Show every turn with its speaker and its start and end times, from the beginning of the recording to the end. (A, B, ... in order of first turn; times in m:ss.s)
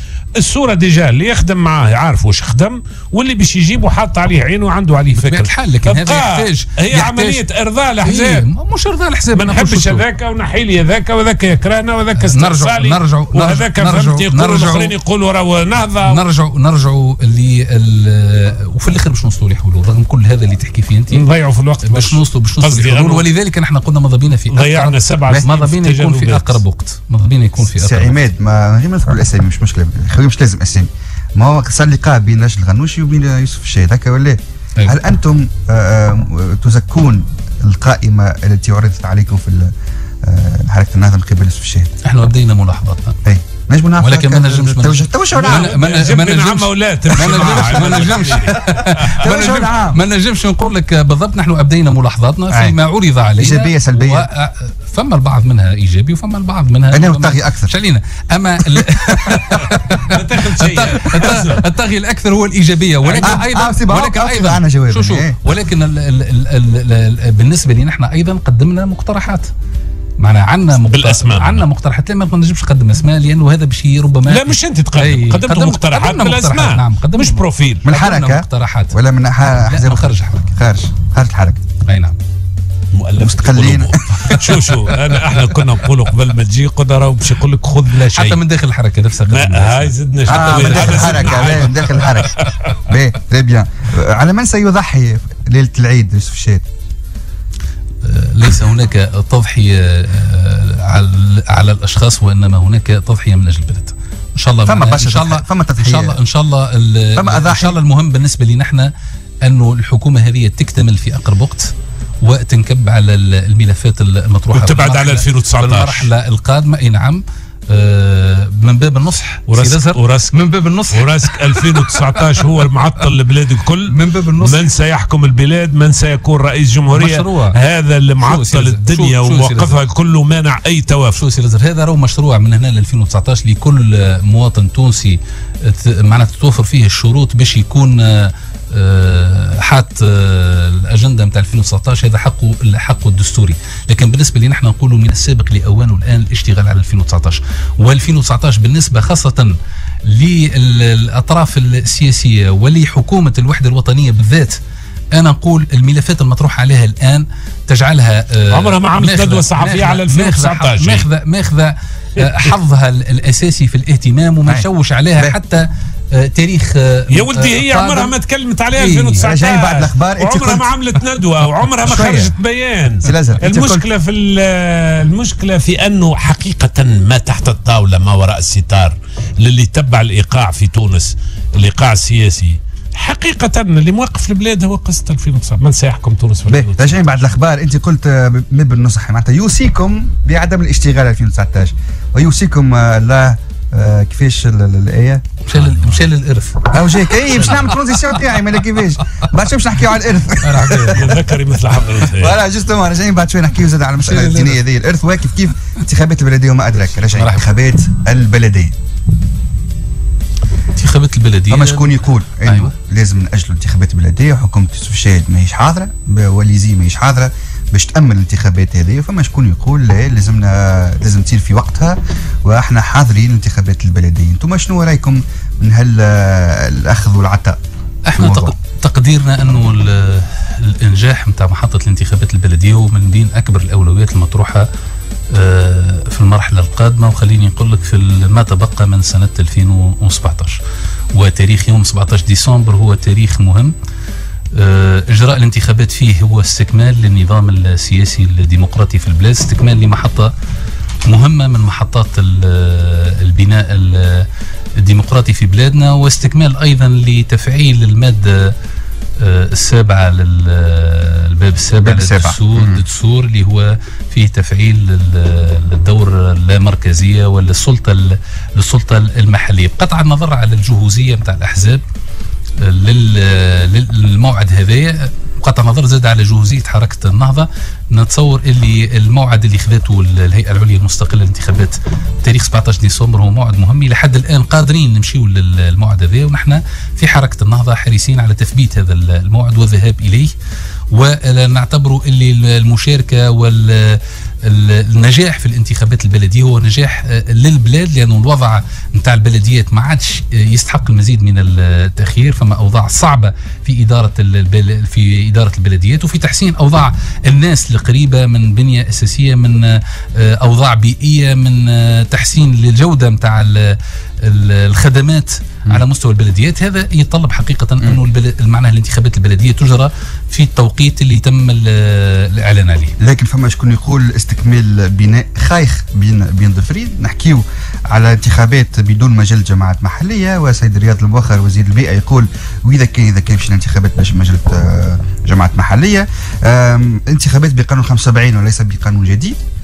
0:00.4-0:08.5 A
0:05.1-0:07.4 B
0:08.0-0:10.0 B
0:09.3-0:16.2 A
0:12.2-0:14.9 B
0:16.0-0:21.2 B
0:21.1-0:23.3 A
0:21.8-0:28.2 B
0:24.5-0:26.6 A
0:27.7-0:41.9 C
0:42.0-0:43.2 B
0:43.2-0:45.8 C
0:44.0-1:09.5 B
0:45.4-0:49.1 A
0:47.2-0:50.0 C
0:52.5-0:52.8 C
0:53.4-0:54.3 C
0:56.9-0:57.7 C
0:58.7-0:59.1 C
0:59.5-1:01.7 A
1:03.0-1:03.4 A
1:03.2-1:05.4 C
1:10.2-1:19.0 B
1:10.9-1:11.6 A
1:14.3-1:17.8 A
1:17.8-1:21.6 C
1:19.6-1:20.5 B
1:21.8-1:22.2 B
1:22.9-1:28.4 A
1:23.2-1:24.8 C
1:27.9-1:32.4 B
1:29.3-1:32.8 A
1:30.3-1:36.7 C
1:38.0-1:48.9 B
1:44.7-1:46.2 C
1:47.2-1:47.8 C
1:49.4-1:51.7 B
1:52.2-2:02.4 B
1:54.5-1:56.1 A
1:59.5-2:11.2 A
2:03.9-2:04.7 B
2:06.9-2:07.6 B
2:08.2-2:09.8 B
2:11.1-2:29.6 B
2:30.1-2:34.6 B
2:35.1-2:48.1 B
2:38.5-2:41.1 A
2:44.5-2:45.4 C
2:47.1-3:07.0 A
2:48.8-2:49.3 B
2:49.2-2:50.7 C
2:51.8-2:52.3 C
2:53.0-2:53.9 C
3:06.5-3:15.2 C
3:15.5-3:18.1 B
3:15.6-3:16.0 A
3:16.7-3:21.2 C
3:20.4-3:21.2 B
3:20.9-3:22.4 A
3:22.1-3:28.8 C
3:24.1-3:24.6 A
3:27.1-3:27.5 B
3:30.8-3:32.7 B
3:31.5-3:47.6 C
3:48.1-3:54.7 B
3:48.2-3:48.5 C
3:55.3-4:00.6 B
4:01.1-4:03.7 B
4:04.5-4:10.3 B
4:11.1-4:14.3 B
4:14.8-4:18.6 B
4:19.2-4:31.8 B
4:21.8-4:22.8 C
4:32.6-4:50.3 B
4:50.9-5:22.9 B
5:23.0-5:39.4 C